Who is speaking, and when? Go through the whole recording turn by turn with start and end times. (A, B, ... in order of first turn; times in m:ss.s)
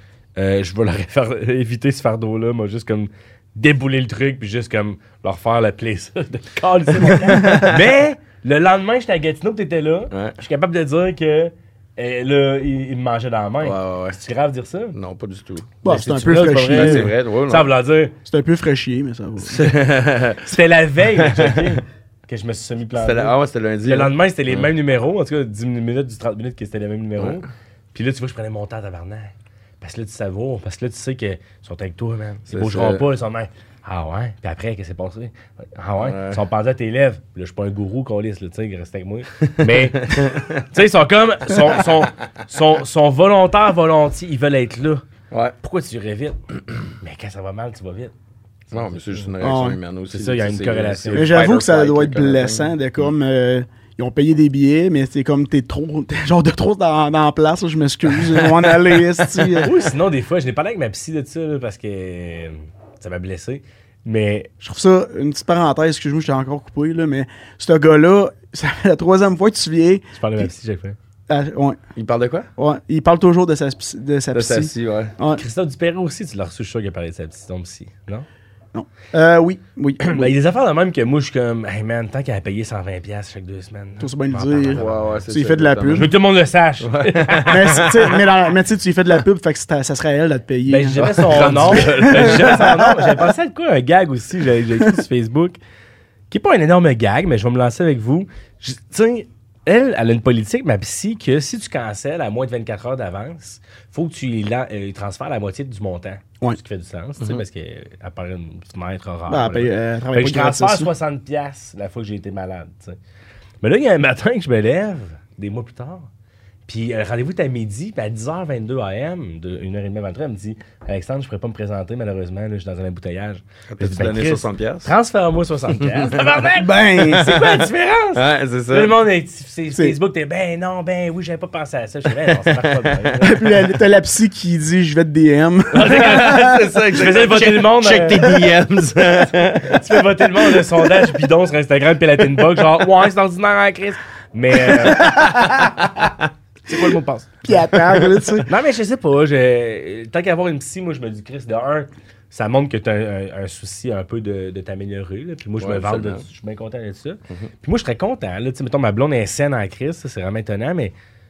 0:00.4-0:15.0 A
0:07.2-0:07.8 B
0:10.1-0:10.4 C
0:13.6-0:14.2 C
0:14.9-0:15.7 C
0:15.8-0:17.1 B
0:15.8-0:18.1 A
0:16.6-0:17.7 C
0:18.3-0:19.6 B
0:19.4-0:20.5 C
0:20.4-0:23.4 A
0:21.1-0:21.8 C
0:23.0-0:24.7 C
0:23.9-0:45.0 A
0:32.5-0:33.0 C
0:36.0-0:36.4 C
0:39.4-0:40.6 C
0:45.6-0:46.4 A
0:47.0-0:48.1 A
0:48.7-0:52.7 C
0:49.4-0:49.8 B
0:50.1-0:51.5 A
0:51.1-0:59.7 B
0:59.6-1:04.5 A
1:04.6-1:10.5 B
1:10.2-1:11.0 A
1:11.3-1:11.8 B
1:12.0-1:12.5 C
1:12.6-1:15.4 B
1:14.3-1:15.1 C
1:15.4-1:18.3 A
1:18.7-1:20.3 B
1:20.0-1:25.2 A
1:24.0-1:26.1 B
1:24.7-1:26.1 C
1:25.9-1:27.9 A
1:26.8-1:28.2 C
1:27.5-1:33.1 B
1:30.7-1:35.6 A
1:30.9-1:32.8 C
1:36.3-1:53.0 A
1:49.3-1:50.9 B
1:53.6-1:56.1 A
1:56.7-2:13.4 A
2:03.7-2:04.9 C
2:05.7-2:06.4 C
2:06.6-2:07.4 B
2:07.1-2:07.6 C
2:08.2-2:09.0 C
2:12.4-2:13.2 C
2:13.2-2:16.6 B
2:15.7-2:18.4 A
2:15.8-2:20.2 C
2:19.6-2:25.5 A
2:24.8-2:26.1 C
2:25.0-2:25.7 B
2:26.7-2:27.6 A
2:27.4-2:28.5 B
2:28.5-2:40.9 A
2:35.6-2:36.2 C